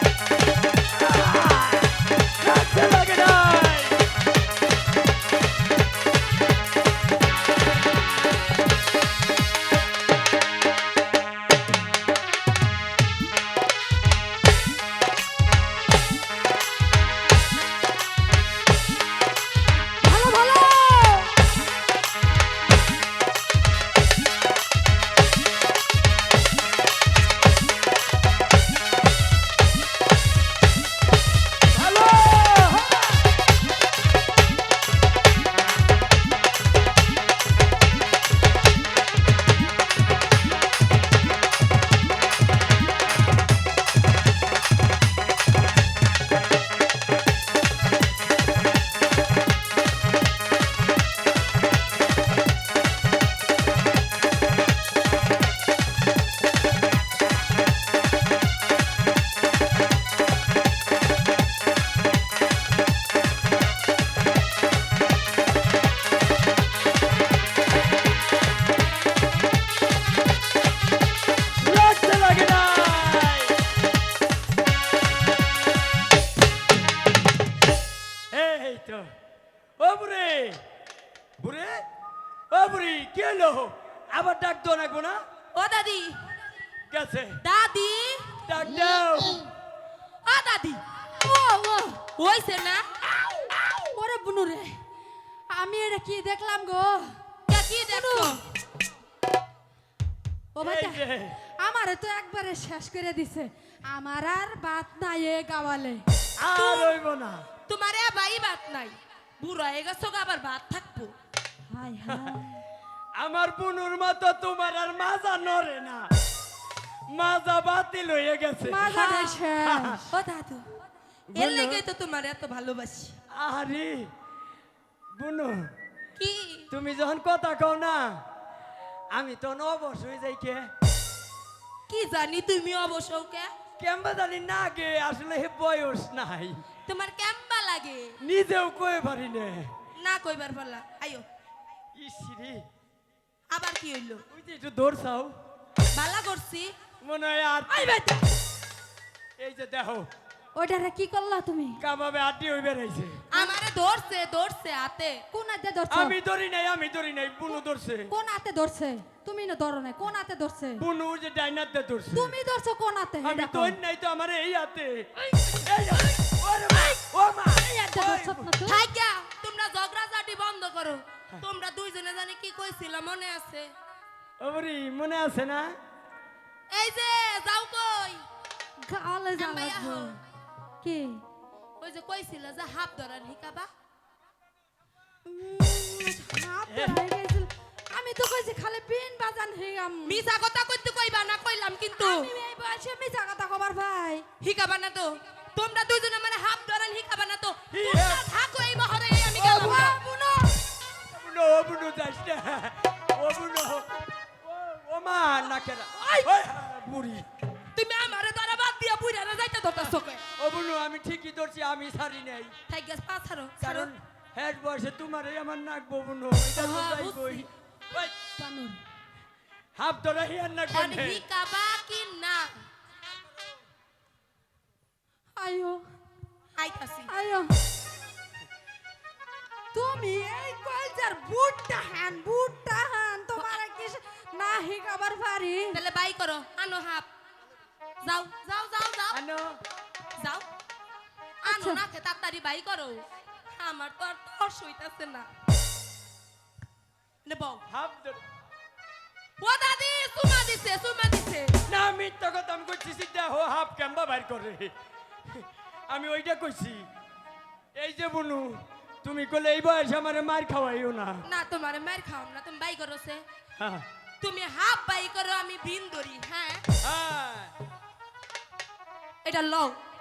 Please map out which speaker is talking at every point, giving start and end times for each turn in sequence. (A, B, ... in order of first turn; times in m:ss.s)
0:00.9-0:04.1 A
0:20.0-0:21.3 B
0:31.7-0:33.3 A
1:11.6-1:13.6 A
1:18.3-1:19.1 A
1:19.8-1:20.6 A
1:21.4-1:21.8 A
1:22.5-1:25.2 A
1:25.5-1:26.3 C
1:26.9-1:27.4 A
1:27.4-1:28.4 C
1:28.4-1:29.4 A
1:30.2-1:30.8 C
1:31.2-1:32.0 B
1:32.2-1:32.8 C
1:33.9-1:34.8 B
1:35.5-1:37.2 B
1:37.5-1:38.4 C
1:37.9-1:38.4 B
1:40.5-1:41.1 B
1:40.6-1:41.4 A
1:41.6-1:46.0 B
1:46.4-1:47.4 A
1:46.5-1:47.0 C
1:47.7-1:51.2 C
1:51.7-1:52.6 B
1:52.1-1:52.4 A
1:53.2-1:56.1 A
1:57.1-1:58.9 A
1:58.6-2:00.1 B
1:58.9-1:59.5 C
1:59.6-2:00.0 A
2:00.1-2:00.7 C
2:01.3-2:01.8 A
2:01.3-2:03.2 C
2:03.3-2:04.1 A
2:05.1-2:05.7 A
2:06.2-2:06.7 C
2:06.7-2:08.2 A
2:09.1-2:10.7 A
2:11.9-2:13.5 C
2:13.8-2:16.6 A
2:16.8-2:18.2 C
2:18.2-2:19.7 A
2:20.0-2:21.2 C
2:21.9-2:22.7 A
2:23.5-2:24.2 C
2:24.3-2:25.4 A
2:25.9-2:26.8 C
2:27.0-2:28.0 A
2:27.7-2:28.2 B
2:29.4-2:30.1 A
2:30.6-2:31.8 B
2:31.8-2:33.2 A
2:33.3-2:35.2 C
2:35.3-2:36.2 B
2:35.9-2:38.1 A
2:38.1-2:40.8 B
2:40.8-2:42.4 A
2:42.1-2:43.8 B
2:43.2-2:45.1 A
2:45.6-2:48.5 A
2:47.6-2:48.9 B
2:48.6-2:53.7 C
2:54.4-2:55.8 A
2:56.7-2:58.2 C
2:58.8-3:00.2 B
2:59.3-3:00.2 C
3:00.8-3:01.2 B
3:01.8-3:03.7 C
3:05.2-3:10.2 B
3:06.7-3:07.0 A
3:10.0-3:12.3 C
3:12.0-3:14.2 B
3:14.4-3:20.0 C
3:17.7-3:18.3 A
3:19.3-3:20.6 B
3:21.0-3:27.2 A
3:27.8-3:30.2 C
3:30.4-3:32.5 A
3:32.7-3:33.9 C
3:33.6-3:38.1 A
3:36.5-3:37.5 C
3:38.2-3:38.8 B
3:39.8-3:41.2 A
3:40.7-3:42.6 C
3:45.4-3:45.8 B
3:46.6-3:47.1 C
3:47.1-3:47.5 B
3:49.7-3:55.8 B
3:55.7-3:57.1 C
3:58.0-3:59.2 C
3:59.1-3:59.6 A
4:00.2-4:00.5 C
4:01.4-4:01.8 B
4:01.4-4:05.3 C
4:07.2-4:07.6 C
4:07.7-4:08.2 A
4:09.4-4:11.6 C
4:11.7-4:14.7 A
4:15.2-4:16.9 A
4:17.8-4:21.2 A
4:21.2-4:23.2 C
4:23.6-4:23.9 A
4:24.2-4:26.6 C
4:26.8-4:27.5 A
4:29.2-4:29.8 C